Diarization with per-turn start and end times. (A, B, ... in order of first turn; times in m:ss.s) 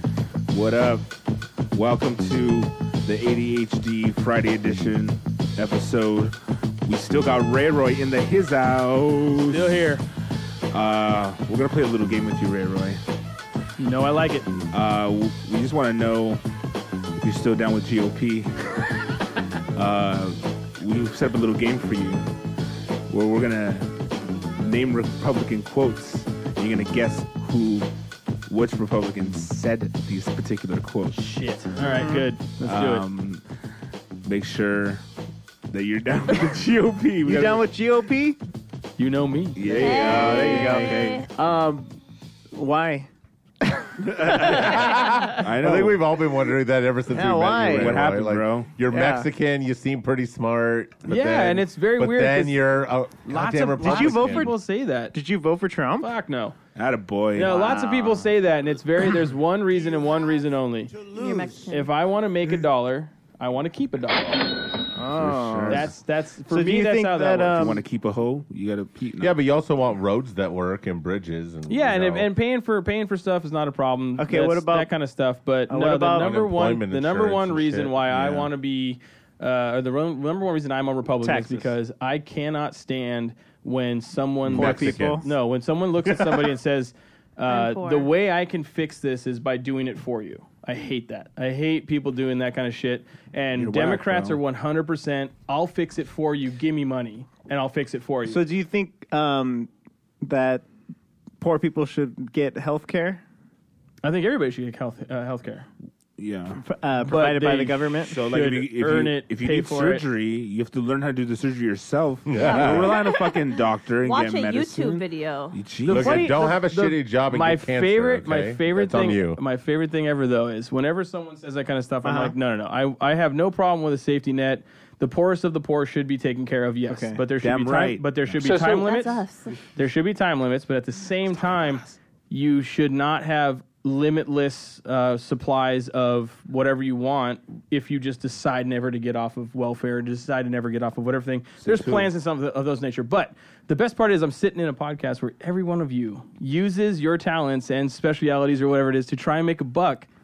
0:00.5-0:01.2 A
0:01.7-0:09.9 A
0:09.4-0:10.0 B
0:10.7-0:13.0 A
0:13.8-0:14.5 B
0:14.7-0:16.4 A
0:17.2-0:18.6 A
0:19.7-0:22.3 A
0:23.1-0:27.9 A
0:28.5-0:31.2 A
0:31.1-0:33.0 B
0:32.0-0:32.3 C
0:32.6-0:33.4 A
0:34.2-0:35.0 A
0:35.7-0:37.6 A
0:37.2-0:38.4 C
0:39.0-0:40.2 B
0:39.6-0:41.3 A
0:39.8-0:41.3 D
0:39.9-0:42.0 C
0:42.5-0:43.1 C
0:43.6-0:45.3 C
0:44.2-0:46.0 A
0:44.4-0:54.5 E
0:47.1-0:48.1 C
0:47.6-0:48.7 A
0:48.9-0:49.3 C
0:51.1-0:52.7 B
0:53.2-0:55.1 B
0:53.8-0:54.6 C
0:55.1-0:56.1 C
0:56.0-0:56.6 B
0:56.7-0:57.6 A
0:57.3-1:01.0 B
0:57.4-0:58.3 C
1:01.1-1:01.9 D
1:01.1-1:01.7 C
1:01.7-1:04.6 B
1:04.9-1:05.9 C
1:05.1-1:05.9 A
1:05.7-1:07.8 B
1:06.5-1:07.8 C
1:07.5-1:09.3 A
1:09.2-1:12.3 E
1:11.7-1:38.4 B
1:14.2-1:14.9 C
1:15.7-1:16.3 C
1:16.1-1:18.5 E
1:21.2-1:21.7 A
1:24.5-1:25.3 E
1:24.5-1:24.8 A
1:24.5-1:25.3 C
1:27.5-1:28.1 D
1:33.5-1:34.4 A
1:38.3-1:39.7 C
1:40.2-1:40.7 C
1:41.4-1:43.2 C
1:44.0-1:45.7 B
1:46.2-1:46.6 A
1:46.6-1:48.2 C
1:47.1-1:50.1 B
1:48.1-1:56.3 A
1:52.3-1:53.1 E
1:52.4-1:55.5 D
1:55.8-2:09.2 B
1:55.9-1:59.4 E
2:02.0-2:02.3 C
2:06.9-2:07.2 C
2:07.4-2:08.3 A
2:08.4-2:09.6 D
2:09.7-2:30.1 B
2:21.6-2:22.1 A